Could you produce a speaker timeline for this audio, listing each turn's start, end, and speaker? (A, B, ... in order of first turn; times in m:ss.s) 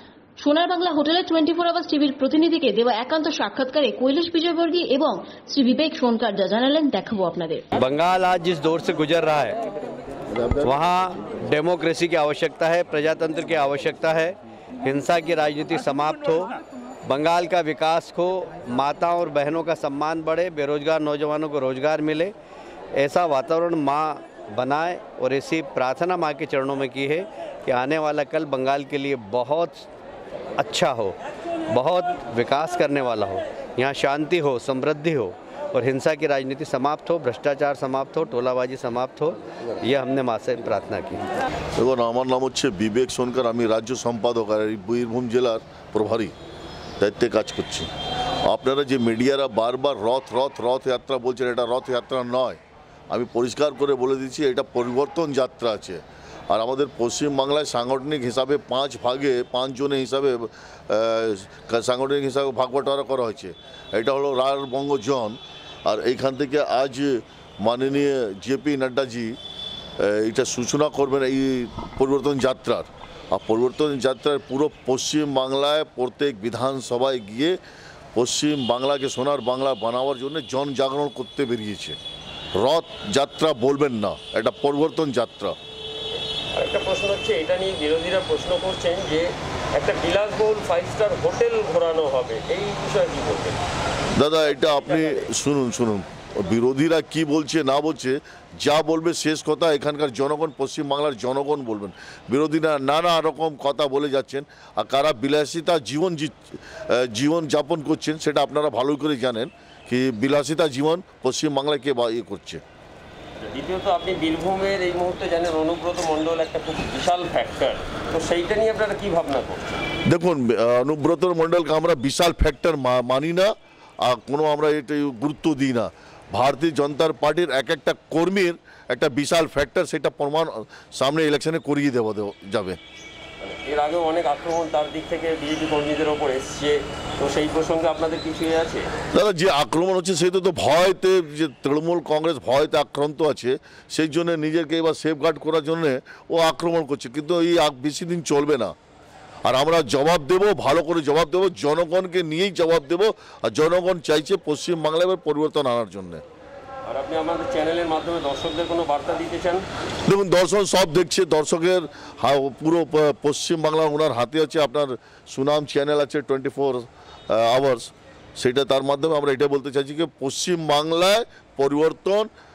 0:00.4-0:07.7 A
0:07.8-0:09.6 B
0:10.6-0:16.5 B
0:17.0-0:22.3 B
0:23.0-0:29.9 B
0:30.6-0:31.2 B
0:31.7-0:41.2 B
0:41.8-0:46.3 C
0:47.0-0:47.9 C
0:48.4-1:09.4 C
1:10.0-1:17.6 C
1:18.1-1:22.0 C
1:22.6-1:25.5 C
1:26.5-1:33.6 D
1:34.2-1:52.6 C
1:34.6-1:35.1 D
1:53.4-1:59.8 D
2:00.0-2:12.8 C
2:13.4-2:18.9 D
2:19.1-2:28.7 C
2:29.4-2:36.2 C
2:36.8-2:39.6 D
2:40.0-2:52.3 C